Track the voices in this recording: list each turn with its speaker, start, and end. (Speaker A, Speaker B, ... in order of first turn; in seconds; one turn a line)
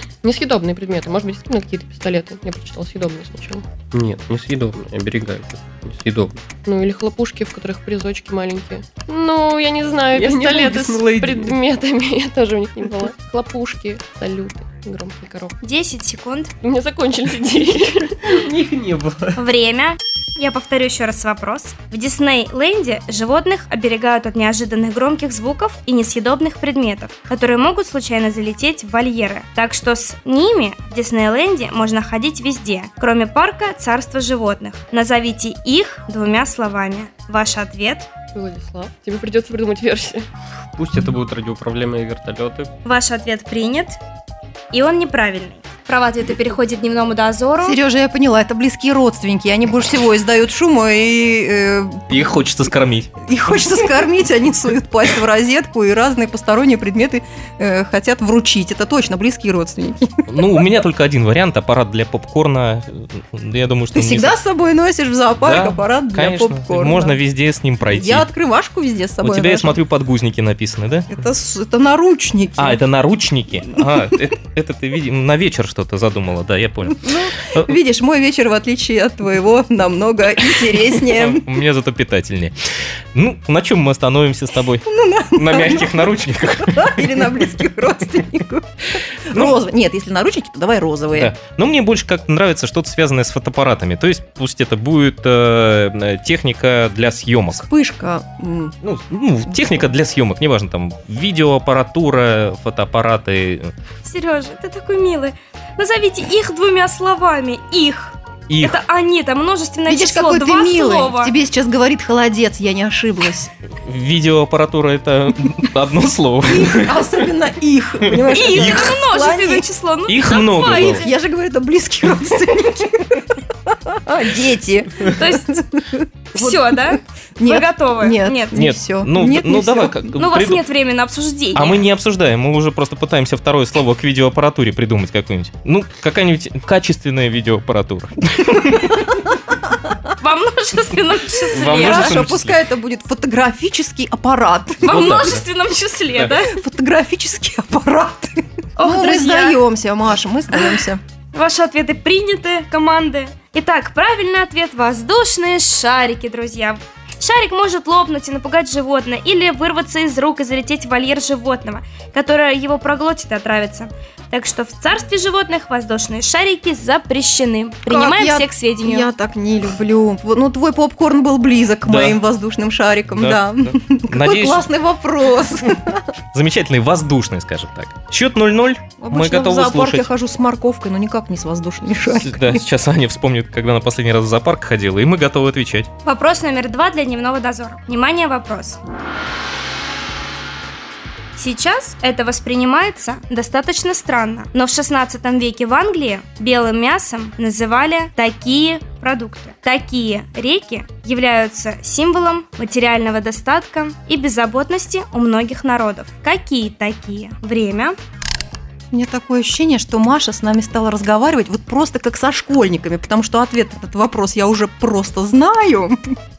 Speaker A: 0.2-3.6
Speaker B: 3.9-6.4
Speaker A: 6.7-15.6
Speaker B: 10.1-11.6
Speaker C: 15.6-16.5
Speaker A: 16.6-18.2
Speaker B: 18.3-19.4
Speaker C: 19.4-38.1
Speaker A: 38.3-40.2
Speaker B: 40.8-42.7
Speaker C: 42.8-44.0
Speaker C: 44.7-47.8
Speaker D: 47.6-52.0
Speaker E: 52.1-53.1
Speaker D: 53.3-60.5
Speaker E: 60.3-64.4
Speaker D: 64.0-67.2
Speaker E: 65.4-68.3
Speaker D: 67.9-69.8
Speaker E: 69.2-71.2
Speaker D: 71.1-72.8
Speaker E: 72.6-77.7
Speaker D: 77.0-81.5
Speaker E: 80.8-82.5
Speaker E: 83.1-87.3
Speaker D: 84.9-86.0
Speaker D: 86.7-91.3
Speaker E: 91.1-97.6
Speaker D: 97.5-98.7
Speaker E: 98.8-103.7
Speaker C: 104.0-111.3
Speaker E: 108.5-108.8
Speaker D: 109.9-113.5
Speaker E: 113.8-117.1
Speaker D: 116.5-119.7
Speaker E: 118.1-119.0
Speaker C: 118.3-121.1
Speaker E: 120.1-121.0
Speaker D: 120.6-123.3
Speaker D: 123.9-125.8
Speaker C: 125.0-125.6
Speaker C: 126.3-128.6
Speaker D: 126.3-130.1
Speaker E: 128.5-130.6
Speaker C: 130.2-131.8
Speaker E: 131.6-139.2
Speaker C: 140.2-142.2
Speaker E: 141.5-142.6
Speaker D: 141.5-145.4
Speaker C: 144.8-146.5
Speaker E: 144.9-145.4
Speaker D: 146.3-151.0
Speaker C: 148.8-149.6
Speaker C: 151.3-169.1
Speaker D: 167.9-176.1
Speaker E: 171.8-172.2
Speaker E: 173.1-174.7
Speaker E: 176.3-180.1
Speaker D: 179.0-182.7
Speaker E: 182.1-185.9
Speaker C: 186.0-188.8
Speaker C: 191.4-208.0
Speaker D: 208.9-215.9